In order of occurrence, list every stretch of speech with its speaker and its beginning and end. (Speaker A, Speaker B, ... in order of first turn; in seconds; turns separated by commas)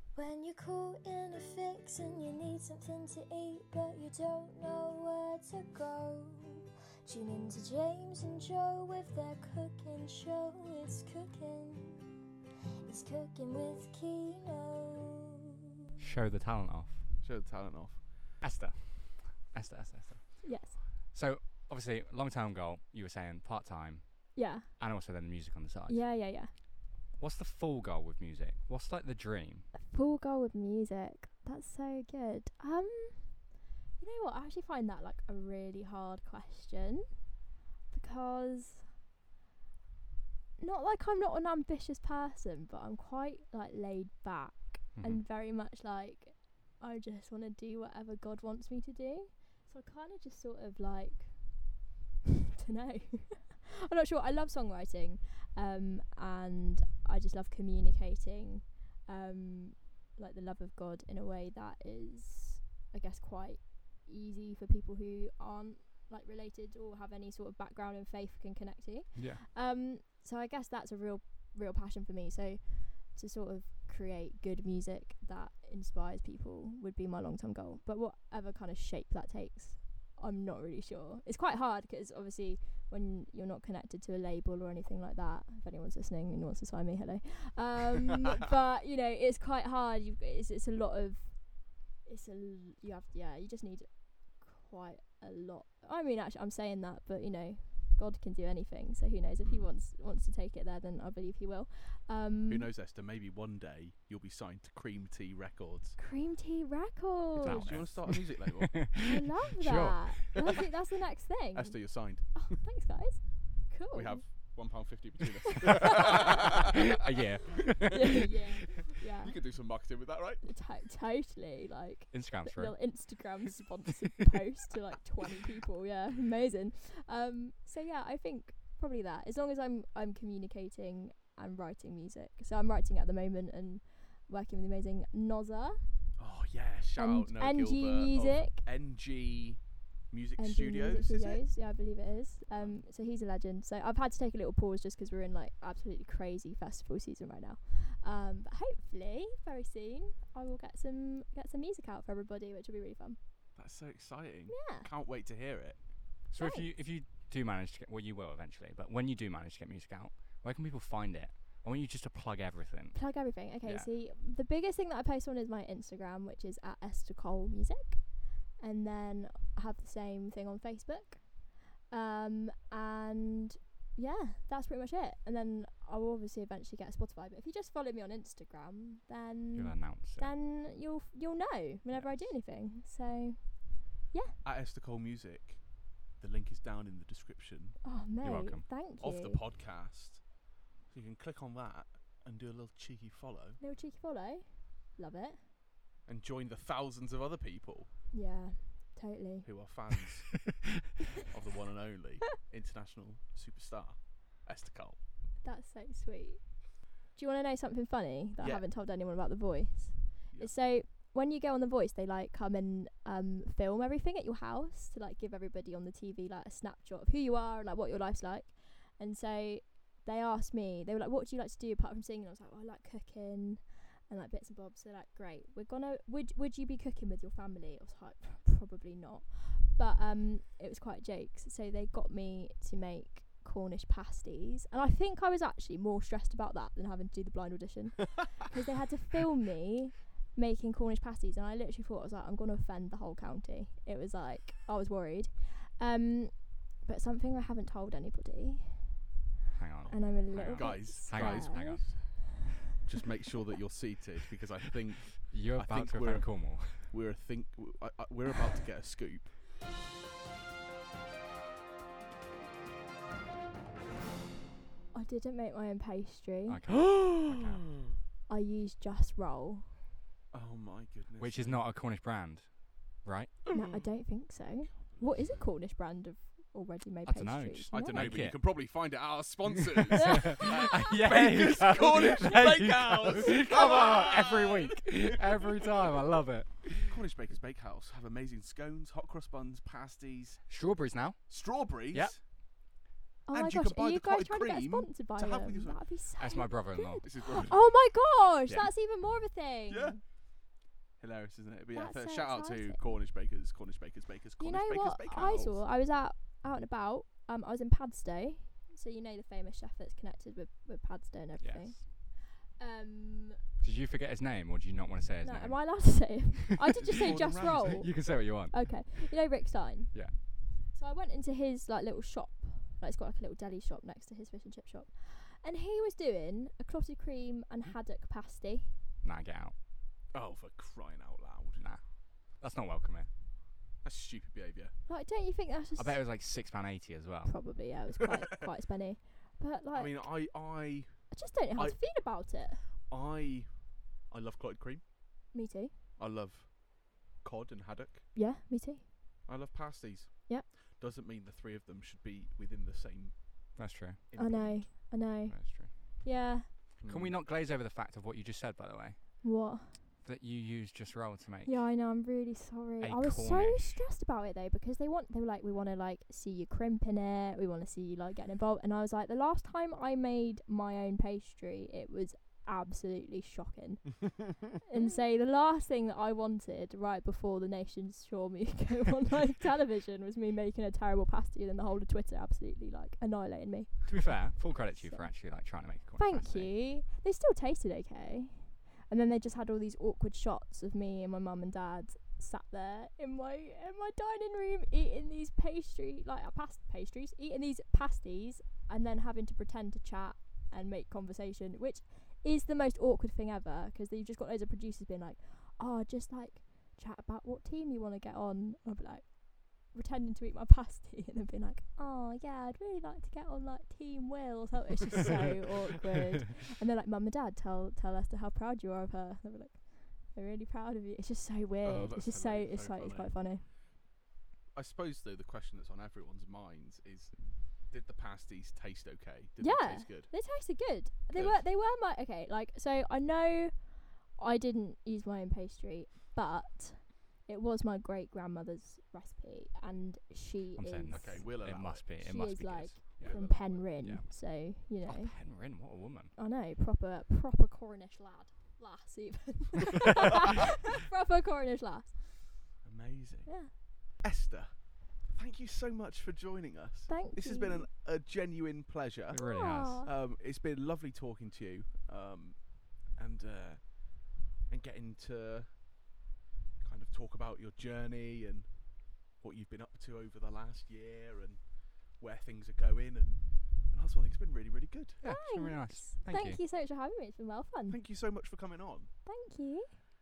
Speaker A: 0.1-12.0, Speaker A: 12.8-15.4, Speaker B: 16.0-17.0, Speaker C: 17.2-18.3, Speaker B: 18.4-26.0, Speaker D: 20.4-20.8, Speaker D: 24.3-24.7, Speaker D: 25.9-26.5, Speaker B: 27.1-29.7, Speaker D: 29.7-37.2, Speaker D: 37.9-38.9, Speaker D: 40.6-51.8, Speaker B: 44.9-45.2, Speaker D: 52.6-102.7, Speaker B: 69.2-69.4, Speaker C: 99.4-99.7, Speaker C: 102.5-106.0, Speaker D: 106.0-107.9, Speaker C: 107.4-109.0, Speaker B: 107.4-110.4, Speaker D: 109.0-114.5, Speaker C: 111.5-112.6, Speaker C: 113.9-117.2, Speaker D: 115.6-116.3, Speaker B: 116.9-118.2, Speaker D: 117.9-119.4, Speaker C: 119.2-120.6, Speaker D: 120.4-135.9, Speaker B: 122.1-123.2, Speaker C: 136.2-141.4, Speaker D: 136.9-138.6, Speaker D: 140.4-153.2, Speaker C: 142.5-142.8, Speaker C: 153.6-155.8, Speaker D: 154.5-154.9, Speaker B: 156.3-163.9, Speaker D: 156.3-156.7, Speaker D: 162.9-184.3, Speaker B: 179.6-180.3, Speaker C: 184.4-187.8, Speaker D: 187.8-189.4, Speaker B: 188.2-188.7, Speaker C: 189.0-190.3, Speaker C: 190.9-193.6, Speaker D: 193.6-195.4, Speaker C: 196.1-197.9, Speaker D: 198.1-199.5, Speaker C: 199.4-200.4, Speaker C: 201.2-205.0, Speaker D: 205.4-249.0, Speaker C: 208.4-208.7, Speaker B: 249.5-252.0, Speaker C: 249.8-252.0, Speaker D: 249.9-252.2, Speaker C: 252.7-259.3, Speaker B: 255.3-256.9, Speaker D: 264.9-266.6, Speaker B: 266.5-267.8, Speaker C: 266.9-267.5, Speaker D: 268.3-269.7, Speaker C: 270.3-271.6, Speaker B: 271.2-273.4, Speaker D: 273.5-278.2, Speaker C: 273.5-273.9, Speaker C: 274.9-275.5, Speaker B: 277.1-278.9, Speaker C: 277.7-285.5, Speaker B: 279.7-286.9, Speaker D: 279.9-280.7, Speaker C: 286.8-290.5, Speaker B: 290.5-292.2, Speaker C: 291.3-292.2, Speaker D: 293.2-300.0, Speaker C: 293.3-295.8, Speaker B: 296.2-297.1, Speaker C: 297.0-297.6, Speaker C: 299.7-300.0, Speaker C: 301.0-305.6, Speaker D: 301.7-302.8, Speaker D: 304.4-313.4, Speaker B: 311.4-311.8, Speaker B: 313.6-316.3, Speaker D: 315.2-328.8, Speaker C: 316.8-317.9, Speaker B: 317.0-319.1, Speaker B: 329.0-329.5, Speaker C: 330.1-331.6, Speaker B: 331.6-333.1, Speaker C: 333.8-334.7, Speaker D: 334.9-336.0, Speaker B: 335.8-337.5, Speaker D: 337.2-340.1, Speaker C: 339.7-341.8, Speaker D: 341.1-342.7, Speaker C: 342.8-343.5, Speaker C: 344.1-344.8, Speaker D: 345.3-345.7, Speaker C: 346.0-348.1, Speaker D: 348.1-348.9, Speaker C: 349.2-353.2, Speaker B: 353.6-355.7, Speaker C: 354.1-354.6, Speaker D: 354.2-356.5, Speaker C: 356.8-357.2, Speaker B: 356.8-359.3, Speaker D: 359.2-359.8, Speaker B: 360.0-361.6, Speaker D: 361.4-423.4, Speaker B: 362.8-363.8, Speaker B: 383.9-386.5, Speaker C: 421.6-423.3, Speaker C: 424.5-430.1, Speaker D: 429.4-441.4, Speaker C: 431.1-431.4, Speaker B: 440.6-446.1, Speaker C: 440.9-441.8, Speaker D: 441.9-445.2, Speaker C: 443.0-443.7, Speaker D: 446.1-452.4, Speaker C: 452.6-465.6, Speaker D: 453.2-453.5, Speaker D: 456.9-457.7, Speaker B: 459.1-459.8, Speaker D: 459.1-459.9, Speaker C: 466.6-475.0, Speaker B: 475.0-476.4, Speaker D: 475.0-477.8, Speaker C: 477.7-478.9, Speaker D: 479.0-479.7